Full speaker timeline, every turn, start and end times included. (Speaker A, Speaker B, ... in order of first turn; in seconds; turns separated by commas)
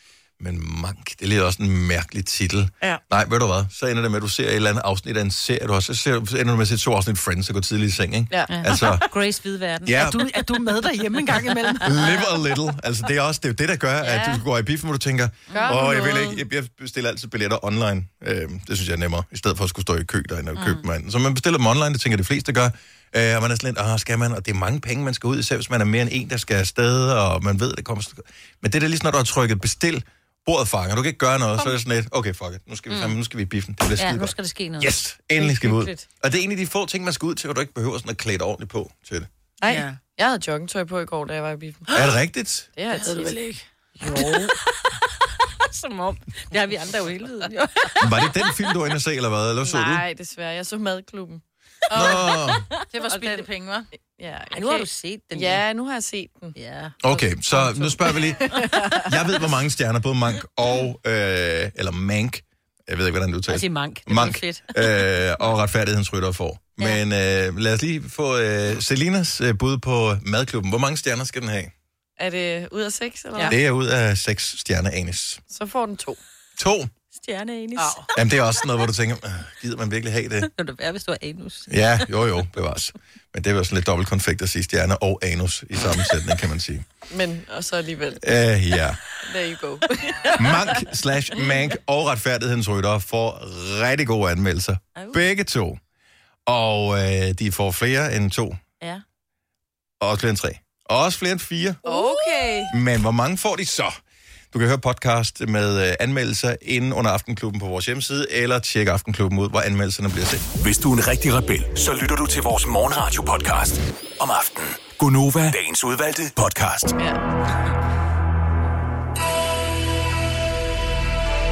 Speaker A: 0.4-9.1, Speaker B: 8.5-10.2, Speaker A: 9.8-10.2, Speaker C: 9.9-12.1, Speaker A: 11.8-39.3, Speaker D: 15.5-16.4, Speaker B: 32.9-33.1, Speaker B: 34.0-35.0, Speaker D: 39.6-42.0, Speaker C: 39.7-40.0, Speaker A: 41.9-42.7, Speaker D: 42.8-43.4, Speaker C: 42.9-43.6, Speaker B: 44.0-44.6, Speaker D: 44.0-44.4, Speaker B: 45.6-48.1, Speaker A: 48.0-50.0, Speaker D: 49.6-52.6, Speaker A: 51.9-52.7, Speaker C: 52.9-53.9, Speaker D: 54.2-56.5, Speaker B: 54.5-55.6, Speaker B: 56.5-57.0, Speaker A: 57.0-71.7, Speaker D: 57.5-59.2, Speaker B: 63.5-65.0, Speaker D: 72.2-73.6, Speaker A: 73.5-75.4, Speaker D: 75.5-76.2, Speaker A: 76.6-76.9, Speaker B: 77.1-78.1, Speaker C: 77.8-78.0, Speaker A: 78.1-80.5, Speaker B: 80.5-82.0, Speaker A: 81.7-86.8, Speaker D: 87.1-88.2, Speaker A: 88.2-89.0, Speaker D: 89.2-90.8, Speaker A: 90.3-95.8, Speaker B: 95.0-95.2, Speaker A: 96.5-98.6, Speaker A: 100.0-101.8, Speaker D: 101.8-102.7, Speaker B: 101.9-102.7, Speaker A: 102.7-104.0, Speaker A: 104.5-110.5, Speaker E: 110.6-116.9